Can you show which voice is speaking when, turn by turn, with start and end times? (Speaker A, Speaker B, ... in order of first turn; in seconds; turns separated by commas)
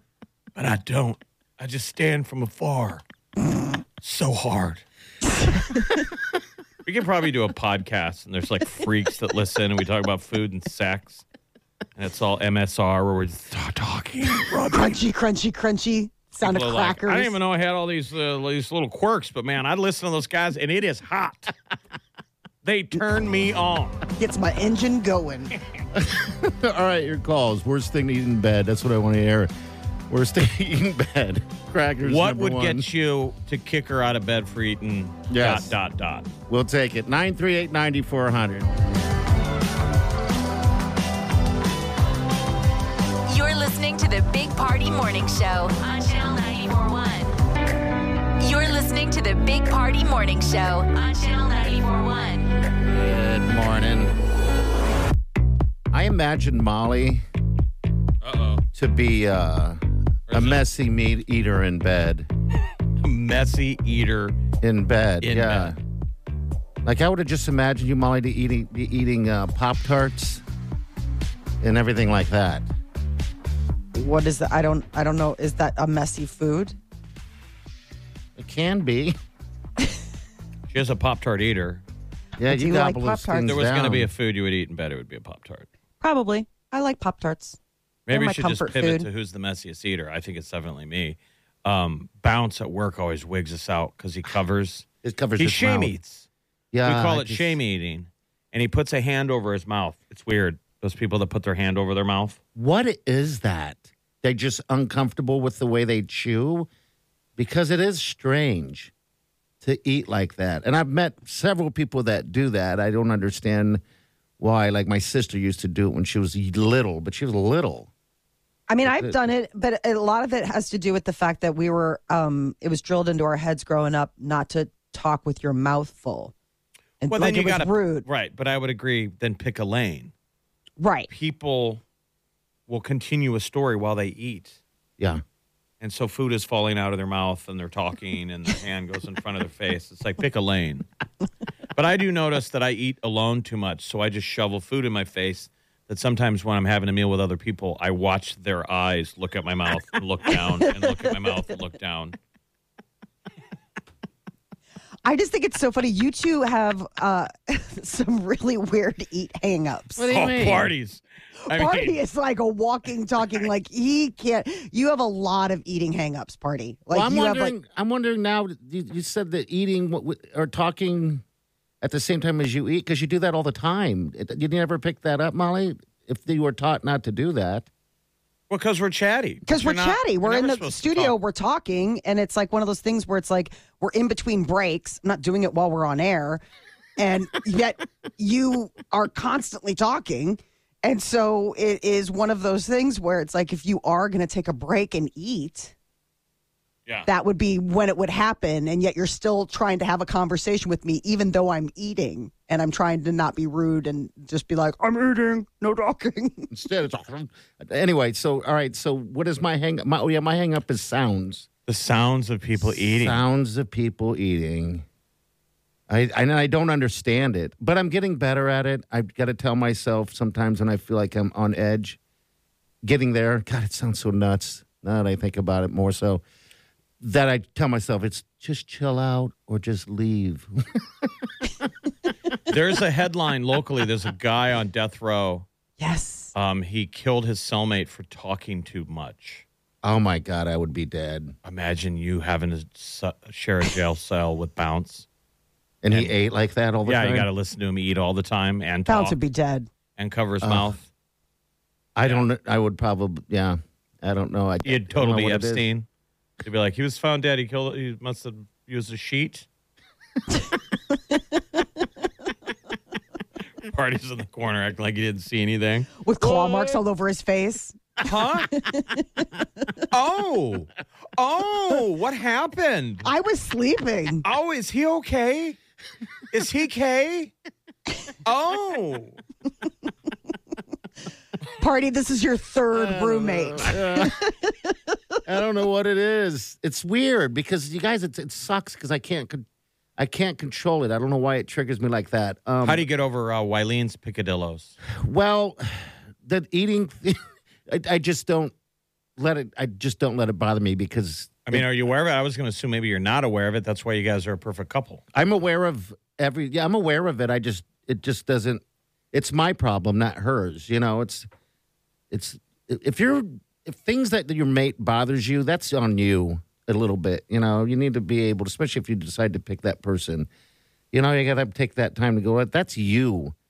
Speaker A: 0.5-3.0, Speaker A: 4.0-4.8, Speaker A: 6.8-11.2, Speaker A: 11.9-15.0, Speaker B: 14.7-17.3, Speaker A: 16.4-21.5, Speaker A: 22.6-24.0, Speaker B: 24.2-25.5, Speaker C: 25.9-29.5, Speaker C: 30.1-32.9, Speaker A: 32.0-36.3, Speaker C: 35.3-35.8, Speaker C: 36.5-38.7, Speaker D: 43.3-47.3, Speaker D: 48.4-52.5, Speaker C: 52.9-54.1, Speaker C: 55.9-57.2, Speaker A: 58.2-58.6, Speaker C: 58.7-62.3, Speaker A: 60.3-60.6, Speaker A: 63.0-64.4, Speaker C: 64.6-65.8, Speaker A: 65.2-65.7, Speaker C: 66.8-70.4, Speaker C: 71.6-72.7, Speaker B: 73.9-76.8, Speaker C: 78.3-79.2, Speaker A: 80.7-81.8, Speaker C: 82.4-84.1, Speaker B: 82.5-83.5, Speaker A: 83.5-85.7, Speaker B: 86.0-87.6, Speaker A: 88.1-94.8, Speaker B: 88.1-89.1, Speaker C: 95.0-95.9, Speaker A: 95.4-96.3, Speaker C: 96.7-97.6, Speaker A: 96.8-102.4, Speaker C: 102.5-106.7, Speaker C: 107.4-108.9, Speaker C: 109.6-113.8, Speaker C: 114.4-117.9, Speaker B: 118.7-126.3, Speaker C: 118.8-119.2, Speaker B: 127.0-128.1, Speaker A: 127.1-130.1, Speaker B: 130.8-131.1, Speaker A: 131.1-131.8, Speaker A: 132.7-134.6, Speaker A: 135.8-140.8, Speaker A: 141.7-152.2, Speaker B: 155.0-160.1, Speaker C: 159.9-160.7, Speaker A: 160.1-162.0, Speaker B: 161.4-167.5, Speaker C: 166.9-171.2, Speaker C: 171.8-177.7, Speaker A: 178.5-181.2, Speaker B: 179.4-186.4, Speaker B: 187.0-195.7, Speaker B: 197.1-206.5, Speaker C: 206.5-211.5, Speaker A: 211.7-213.2, Speaker C: 212.6-214.8, Speaker C: 215.9-222.0, Speaker C: 222.8-226.2, Speaker C: 227.0-231.3, Speaker A: 232.5-235.4, Speaker B: 235.8-236.3, Speaker A: 236.3-239.4, Speaker C: 239.8-241.3, Speaker A: 241.4-245.1, Speaker C: 245.8-247.3, Speaker A: 246.8-249.2, Speaker B: 248.9-249.7, Speaker A: 250.0-250.9, Speaker C: 250.4-250.7, Speaker C: 251.9-255.7, Speaker A: 254.6-255.8, Speaker A: 256.4-259.4, Speaker A: 263.6-265.9, Speaker B: 266.0-269.2, Speaker A: 268.0-268.6, Speaker A: 269.9-273.1, Speaker B: 273.0-274.2, Speaker A: 274.2-275.6, Speaker A: 276.3-277.3, Speaker A: 278.2-279.2, Speaker B: 281.6-284.9, Speaker C: 282.7-284.1, Speaker C: 285.2-289.4, Speaker C: 290.0-292.8, Speaker A: 292.6-294.7, Speaker C: 294.9-298.5, Speaker C: 299.2-301.7, Speaker A: 301.4-305.0, Speaker C: 305.1-311.3, Speaker C: 312.1-320.3, Speaker C: 320.9-323.3